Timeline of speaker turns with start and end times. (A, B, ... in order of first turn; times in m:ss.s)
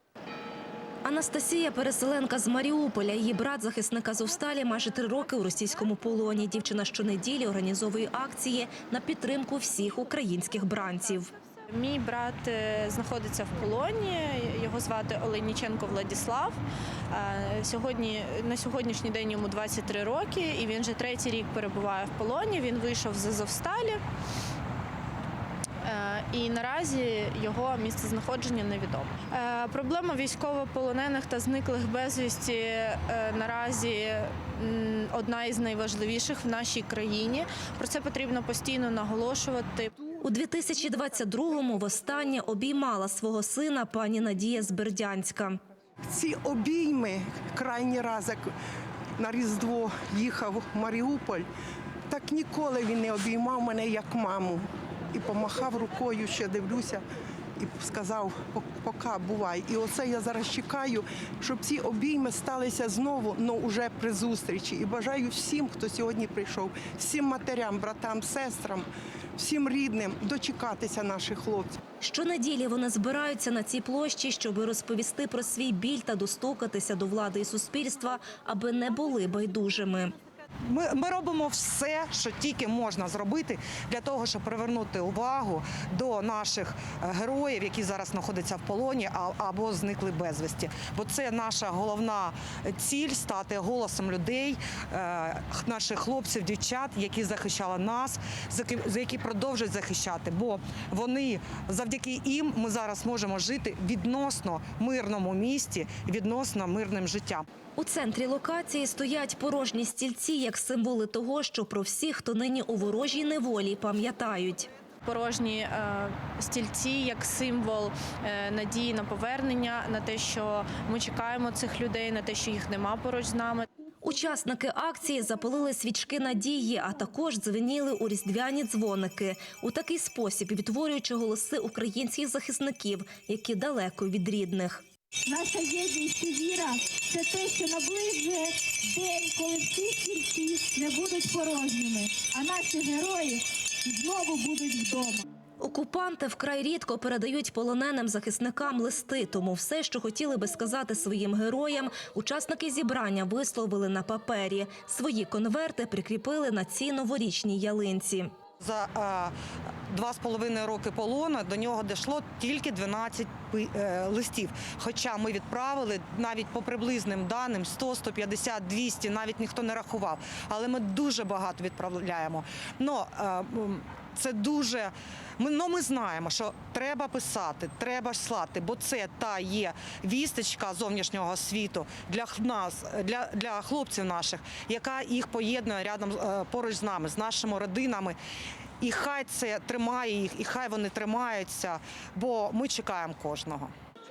0:01.0-0:11.3 A
0:11.7-0:16.6 B
0:17.1-0:24.0 B
0:25.8-0:39.9 B
0:40.2-0:45.6 A
0:46.1-0:48.5 C
0:49.2-0:51.5 C
0:52.1-0:57.0 C
0:57.6-1:11.8 C
1:12.0-1:20.2 A
1:20.7-1:47.4 D
1:47.8-1:54.7 A
1:55.0-2:03.6 B
2:04.0-2:14.8 A
2:15.2-2:25.2 E
2:25.6-2:38.3 A
2:38.6-2:39.3 D
2:39.9-3:08.2 D
3:08.8-3:13.7 D